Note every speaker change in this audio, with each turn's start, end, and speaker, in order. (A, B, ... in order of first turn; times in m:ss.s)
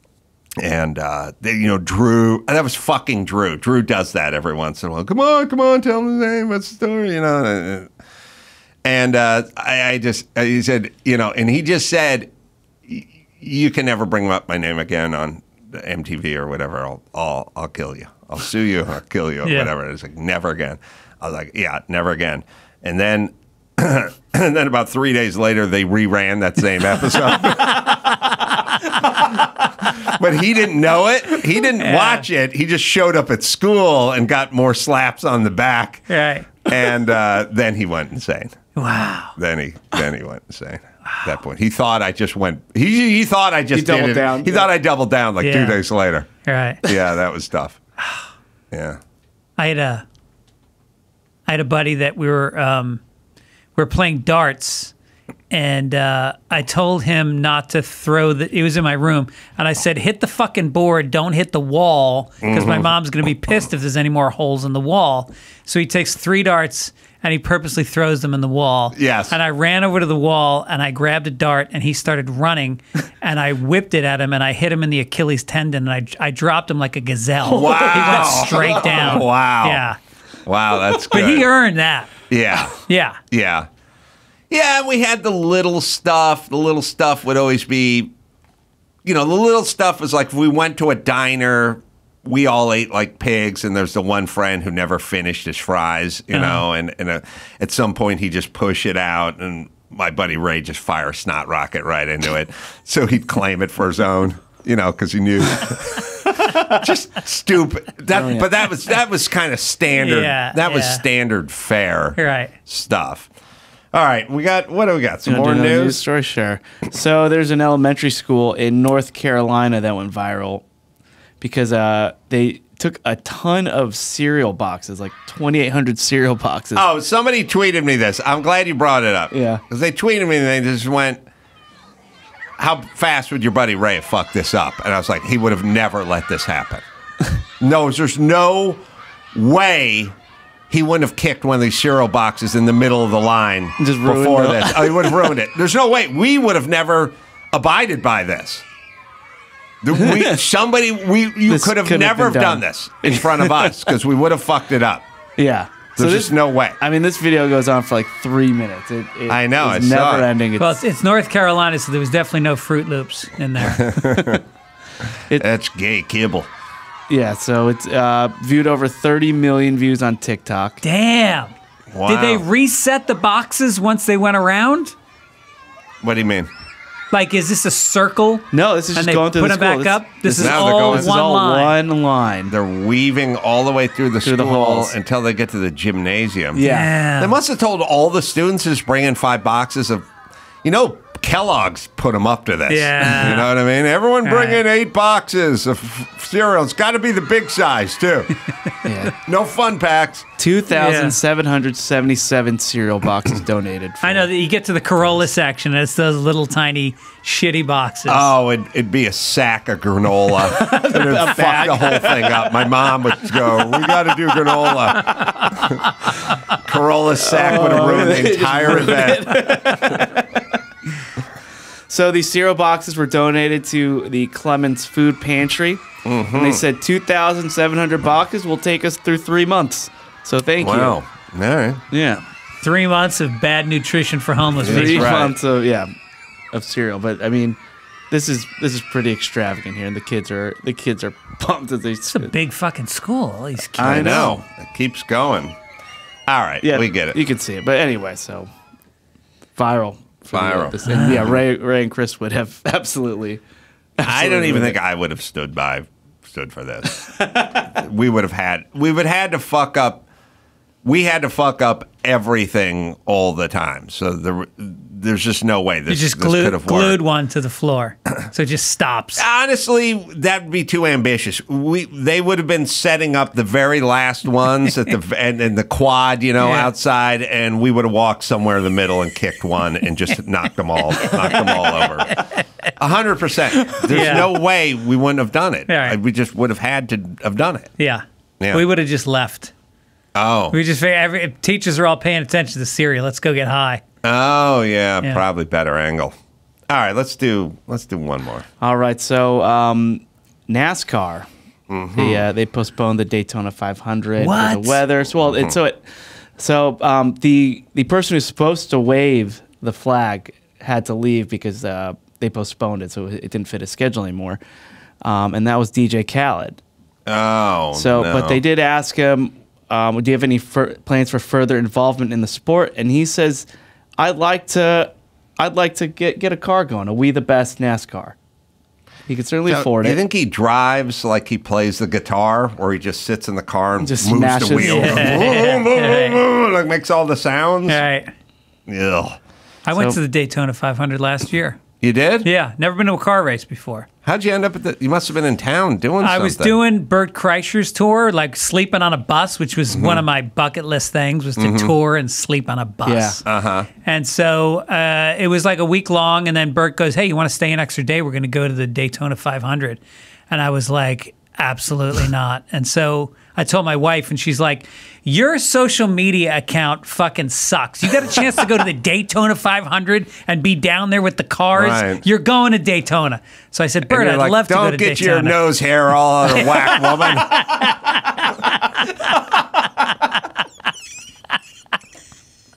0:00.6-0:07.9 A
0:08.8-0:12.3 A
0:12.9-0:36.1 A
0:19.4-0:19.7 B
0:31.8-0:32.3 B
0:36.1-0:36.5 B
0:36.6-0:38.5 A
0:38.8-0:39.3 B
0:39.4-0:46.3 A
0:43.7-0:44.7 C
0:45.4-0:45.8 B
0:46.4-0:46.8 B
0:46.8-0:47.8 A
0:48.7-0:49.0 A
0:49.6-0:50.0 B
0:51.5-0:53.0 B
0:53.8-0:54.9 B
0:55.5-1:20.0 B
1:02.4-1:02.9 A
1:08.9-1:09.4 A
1:17.5-1:19.2 C
1:17.5-1:19.8 A
1:20.4-1:21.5 A
1:21.1-1:22.1 B
1:22.3-1:22.8 A
1:22.8-1:23.2 B
1:23.3-1:23.7 A
1:24.5-1:28.1 A
1:29.0-1:53.3 A
1:36.3-1:36.6 B
1:48.1-1:48.5 C
1:49.9-1:51.0 B
1:52.2-1:52.5 B
1:53.9-1:56.0 A
1:55.3-2:00.6 C
2:01.4-2:06.8 C
2:06.8-2:11.2 A
2:09.3-2:09.6 C
2:12.6-2:16.8 A
2:17.6-2:18.8 A
2:19.3-2:20.1 A
2:20.7-2:28.6 A
2:23.8-2:25.3 C
2:29.8-2:35.0 A
2:30.0-2:30.4 C
2:31.5-2:33.9 C
2:35.4-2:40.8 C
2:36.0-2:36.8 A
2:39.3-2:40.3 A
2:40.6-2:43.8 B
2:43.6-2:44.4 A
2:45.4-2:46.5 A
2:47.1-2:50.8 C
2:50.8-2:51.5 B
2:51.9-2:52.4 A
2:52.1-2:55.0 B
2:56.0-2:56.5 A
2:57.1-3:01.8 B
2:58.5-3:02.5 C
3:00.4-3:01.2 A
3:02.5-3:10.1 A
3:04.2-3:04.9 C
3:06.6-3:06.9 C
3:06.6-3:07.4 B
3:10.6-3:18.4 A
3:12.7-3:13.5 B
3:14.2-3:14.6 B
3:18.8-3:19.1 C
3:19.1-3:20.3 A
3:20.4-3:24.3 C
3:20.7-3:21.2 B
3:24.0-3:28.3 B
3:28.1-3:35.9 A
3:30.4-3:35.5 C
3:36.5-3:40.0 A
3:37.2-3:40.6 C
3:41.9-3:51.0 C
3:46.0-3:46.6 A
3:50.6-3:51.8 A
3:51.9-3:52.2 C
3:52.6-3:55.3 B
3:54.6-3:55.3 A
3:54.6-3:55.9 C
3:56.5-3:57.6 C
3:58.1-4:02.3 C
4:02.1-4:04.1 B
4:03.8-4:04.4 C
4:03.8-4:05.6 A
4:06.3-4:07.2 A
4:06.6-4:08.5 C
4:09.6-4:13.4 C
4:10.3-4:11.3 A
4:10.9-4:11.2 B
4:14.0-4:14.8 C
4:14.0-4:20.0 A
4:17.0-4:17.7 C
4:20.8-4:27.0 A
4:25.9-4:29.2 B
4:29.2-4:42.2 A
4:36.4-4:36.7 B
4:41.0-4:42.4 B
4:42.8-4:47.7 A
4:43.7-4:44.3 C
4:43.9-4:44.3 B
4:45.7-4:46.0 B
4:47.8-4:49.5 B
4:50.2-4:50.6 A
4:50.5-4:53.8 B
4:54.0-4:56.1 A
4:56.7-4:58.5 A
4:58.6-5:01.3 C
5:01.7-5:02.3 A
5:02.0-5:05.9 C
5:04.2-5:04.8 B
5:05.2-5:05.5 A
5:06.4-5:14.4 C
5:15.0-5:16.6 C
5:17.1-5:18.4 A
5:17.7-5:23.5 C
5:24.0-5:28.2 C
5:29.1-5:30.0 C
5:29.5-5:37.8 A
5:33.8-5:35.4 C
5:34.6-5:36.2 B
5:37.7-5:38.1 B
5:38.7-5:39.2 A
5:39.6-5:41.6 B
5:41.8-5:42.3 A
5:42.2-5:43.9 B
5:44.0-5:46.6 A
5:46.0-5:53.2 B
5:49.7-5:50.0 A
5:51.4-5:51.8 A
5:52.9-5:53.2 C
5:53.2-5:53.7 A
5:53.8-6:15.4 B
6:11.6-6:12.0 A
6:13.9-6:17.7 A
6:16.4-6:18.0 B